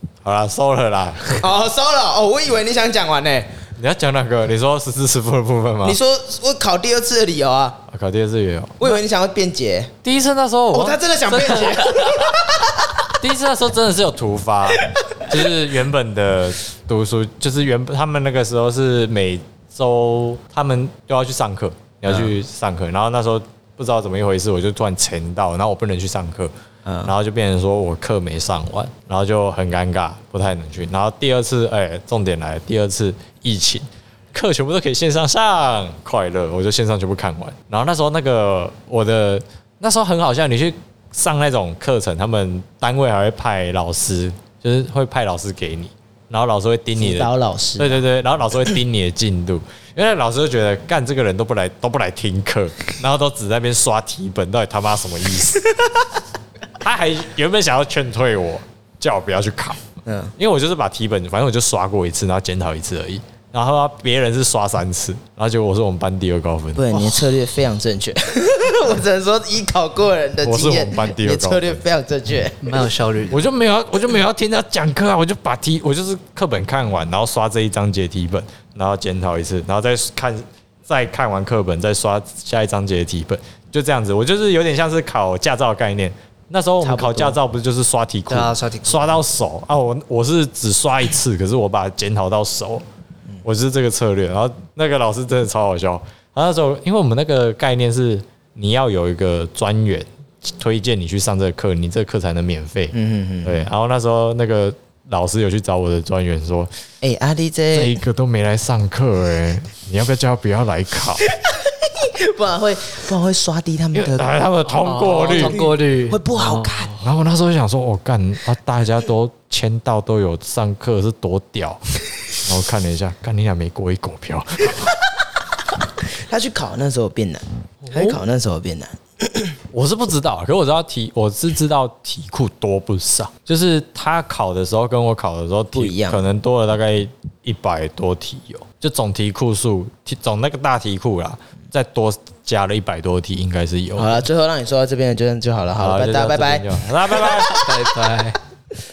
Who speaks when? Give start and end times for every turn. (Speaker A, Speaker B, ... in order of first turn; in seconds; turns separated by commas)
Speaker A: 0.2-1.4, Speaker B: 1.4-3.6, Speaker A: 3.8-6.0, Speaker B: 5.8-7.8, Speaker A: 7.9-9.0, Speaker B: 8.8-9.9, Speaker A: 10.0-12.3, Speaker B: 10.7-13.1, Speaker A: 13.2-26.5, Speaker B: 14.8-15.1, Speaker B: 22.1-22.3, Speaker B: 26.8-27.1, Speaker A: 27.0-55.7, Speaker B: 47.0-48.0, Speaker A: 56.8-67.3, Speaker B: 60.0-60.3, Speaker B: 66.8-72.9, Speaker A: 70.4-71.8, Speaker C: 72.6-73.4, Speaker A: 73.3-92.8, Speaker B: 86.8-87.4, Speaker C: 88.3-89.0, Speaker A: 93.4-106.7, Speaker B: 102.9-103.7, Speaker B: 107.0-108.0, Speaker A: 107.7-111.3, Speaker B: 111.2-114.3, Speaker A: 113.9-115.6, Speaker C: 114.8-117.0, Speaker B: 115.3-116.9, Speaker A: 117.0-121.8, Speaker A: 122.4-124.9, Speaker B: 126.0-129.6, Speaker A: 127.8-128.2, Speaker A: 129.7-144.2, Speaker B: 135.7-136.2, Speaker B: 143.9-147.7, Speaker A: 145.8-148.3, Speaker C: 147.5-148.3